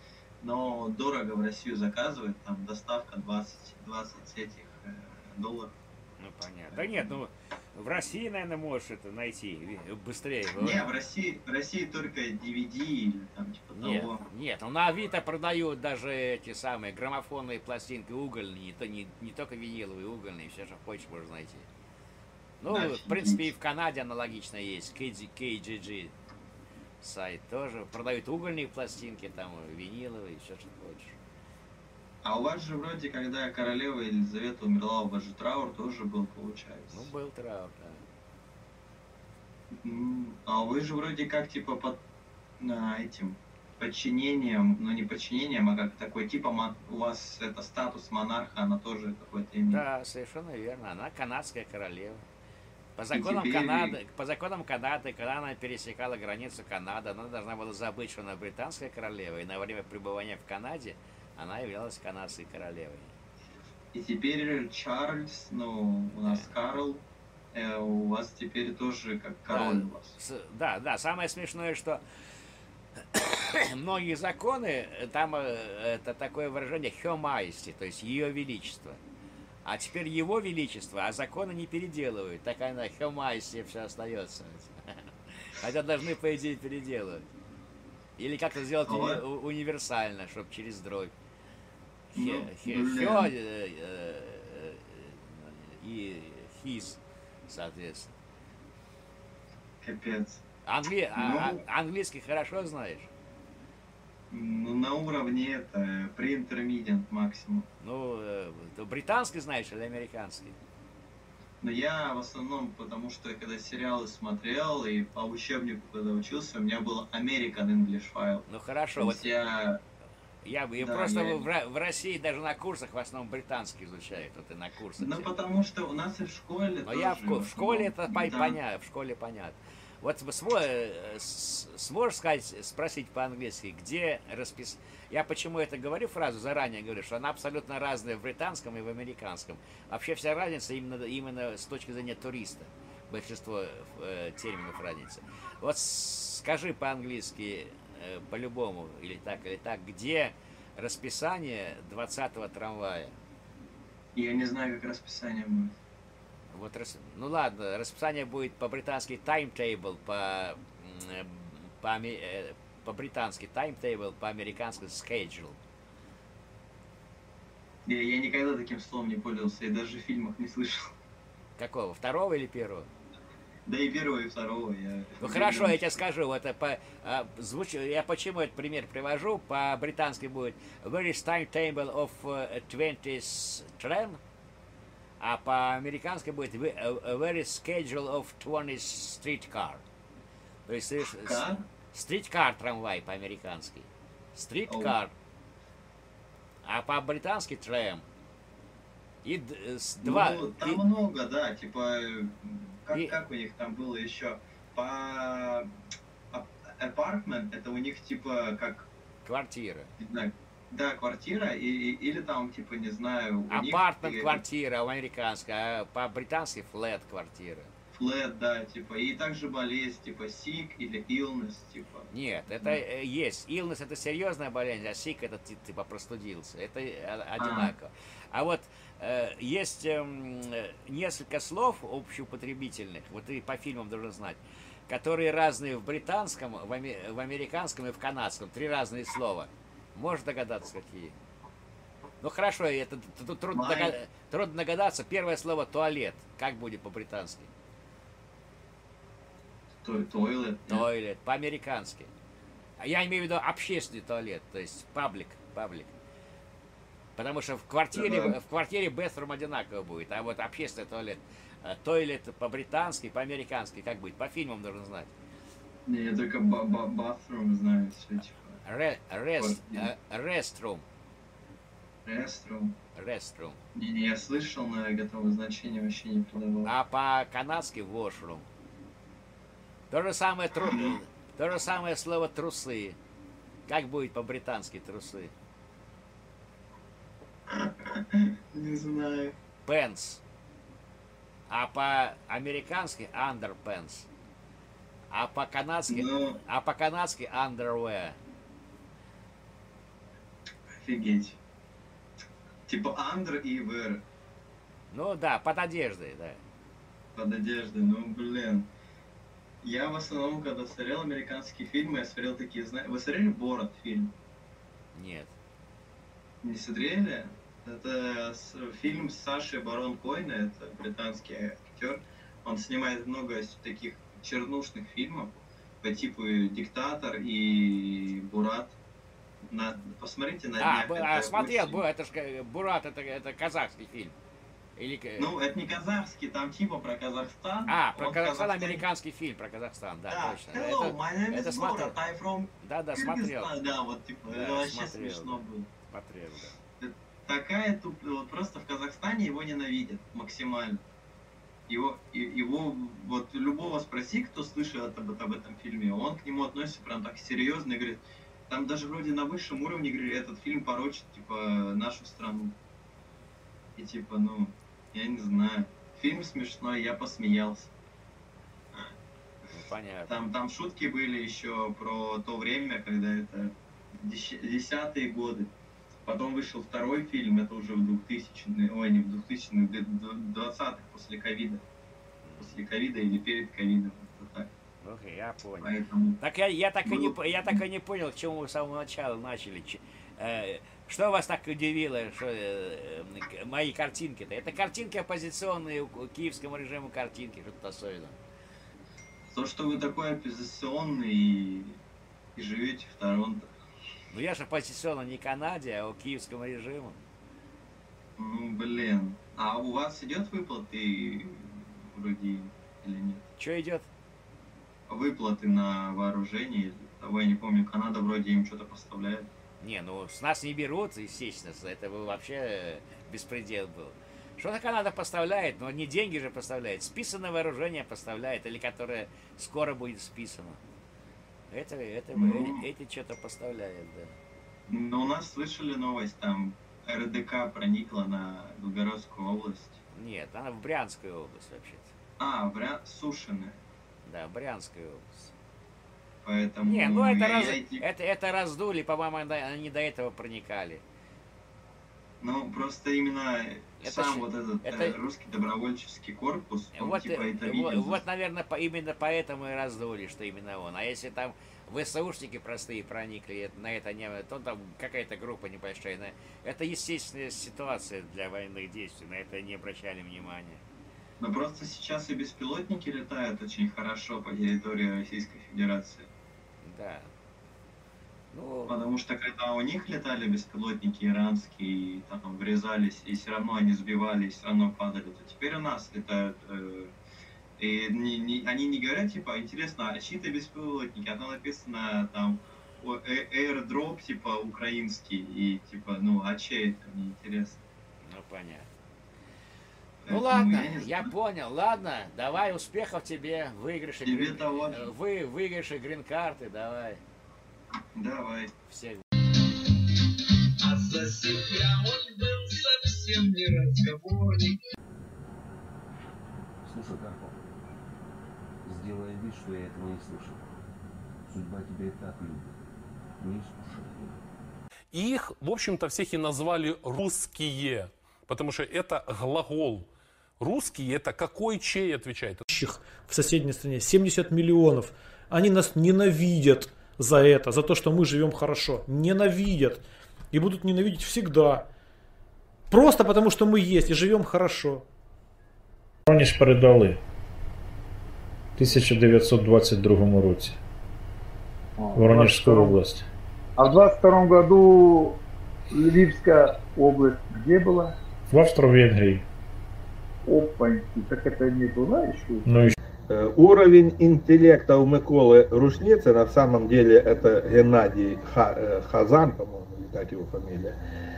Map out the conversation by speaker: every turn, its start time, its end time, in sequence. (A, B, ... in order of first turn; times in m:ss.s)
0:00.4-0:05.7 A
0:06.2-0:10.9 B
0:06.7-0:07.2 A
0:10.6-0:14.2 A
0:13.8-0:21.6 B
0:22.6-0:26.1 B
0:22.7-0:23.5 A
0:27.0-0:31.2 B
0:32.2-0:37.1 A
0:36.9-0:38.0 B
0:39.7-0:42.0 A
0:42.6-0:49.8 A
0:49.7-0:52.2 B
0:53.0-1:03.1 B
0:53.1-0:54.0 A
1:03.9-1:10.2 A
1:06.2-1:06.5 B
1:09.5-1:12.0 B
1:13.0-1:19.0 B
1:19.6-1:27.3 B
1:28.2-1:31.1 B
1:28.8-1:29.2 A
1:32.1-1:38.1 B
1:32.1-1:33.3 A
1:39.8-1:40.4 A
1:40.6-1:43.1 B
1:41.1-1:41.6 A
1:44.3-1:47.7 A
1:47.8-1:50.6 B
1:51.6-1:58.4 A
1:58.5-1:59.4 B
1:59.0-1:59.8 A
2:00.4-2:05.3 B
2:00.8-2:01.4 A
2:05.0-2:08.6 A
2:06.8-2:33.1 B
2:34.1-2:35.8 A
2:36.5-2:45.6 B
2:47.8-2:50.9 A
2:51.6-2:52.9 B
2:53.6-2:56.0 A
2:55.2-3:04.2 B
3:05.2-3:09.8 B
3:10.7-3:15.1 B
3:11.2-3:11.6 A
3:14.7-3:15.0 A
3:16.6-3:18.0 B
3:19.2-3:20.8 B
3:20.0-3:25.7 A
3:22.9-3:23.2 B
3:26.3-3:28.9 A
3:29.2-3:29.9 B
3:30.0-3:34.4 A
3:33.5-3:37.7 B
3:37.9-3:42.1 A
3:42.1-4:01.1 B
3:47.4-3:47.7 A
4:02.2-4:07.5 B
4:03.5-4:04.0 A
4:09.8-4:10.8 A
4:10.7-4:12.1 B
4:12.8-4:15.9 B
4:17.2-4:25.1 B
4:17.9-4:18.4 A
4:25.8-4:28.6 A
4:28.6-4:30.8 B
4:29.4-4:29.9 A
4:32.0-4:32.7 A
4:32.9-4:33.6 B
4:33.7-4:36.7 A
4:36.6-4:38.5 B
4:39.9-4:43.0 B
4:40.6-4:41.0 A
4:43.7-4:45.3 B
4:47.5-4:49.3 A
4:49.6-4:50.2 B
4:51.5-4:54.1 B
4:55.1-4:58.2 B
4:55.9-4:56.4 A
5:00.7-5:01.4 A
5:02.7-5:04.0 A
5:04.9-5:06.4 B
5:07.1-5:08.7 A
5:09.6-5:14.1 A
5:14.9-5:15.3 B
5:16.4-5:28.8 A
5:29.5-5:31.8 A
5:30.6-5:34.1 B
5:34.8-5:35.3 B
5:35.2-5:38.8 A
5:37.7-5:42.0 B
5:40.1-5:45.7 A
5:42.6-5:43.5 B
5:44.3-5:46.6 B
5:46.8-5:50.8 A
5:51.7-6:02.6 A
6:03.8-6:07.7 A
6:09.5-6:10.2 B
6:10.1-6:15.5 A
6:16.0-6:21.6 A
6:22.2-6:22.5 B
6:22.4-6:24.5 A
6:24.8-6:38.2 B
6:25.6-6:26.2 A
6:26.8-6:27.6 A
6:39.3-6:41.8 A
6:42.3-6:43.5 A
6:44.1-6:47.0 B
6:48.2-6:53.2 A
6:53.4-6:53.9 B
6:54.9-6:59.3 A
6:59.6-7:10.6 B
7:11.5-7:14.1 B
7:12.1-7:12.6 A
7:14.7-7:19.8 A
7:19.9-7:21.9 B
7:22.2-7:23.6 A
7:24.0-7:25.3 B
7:26.2-7:27.8 A
7:26.6-7:30.8 B
7:32.2-7:38.0 A
7:33.8-7:34.9 B
7:36.7-7:50.6 B
7:51.2-7:56.1 A
7:56.6-7:57.1 B
7:58.3-7:58.7 B
7:58.7-8:06.9 A
8:07.6-8:17.6 A
8:18.0-8:18.7 B
8:20.0-8:21.1 A
8:20.0-8:27.0 B
8:24.0-8:24.9 A
8:27.9-8:28.5 A
8:28.7-8:29.0 B
8:30.8-8:34.4 C
8:36.6-8:37.4 D
8:38.6-8:40.5 D
8:41.3-8:42.6 D
8:43.2-8:44.2 D
8:44.9-8:49.9 E
8:50.4-8:52.4 E
8:52.5-9:01.7 F
9:02.7-9:04.8 F
9:06.1-9:07.0 G
9:08.6-9:10.6 G
9:11.8-9:12.8 H
9:12.7-9:13.0 G
9:13.6-9:15.2 H
9:15.7-9:17.9 H
9:18.3-9:19.2 G
9:20.2-9:22.6 H
9:22.5-9:22.7 G
9:23.1-9:30.8 I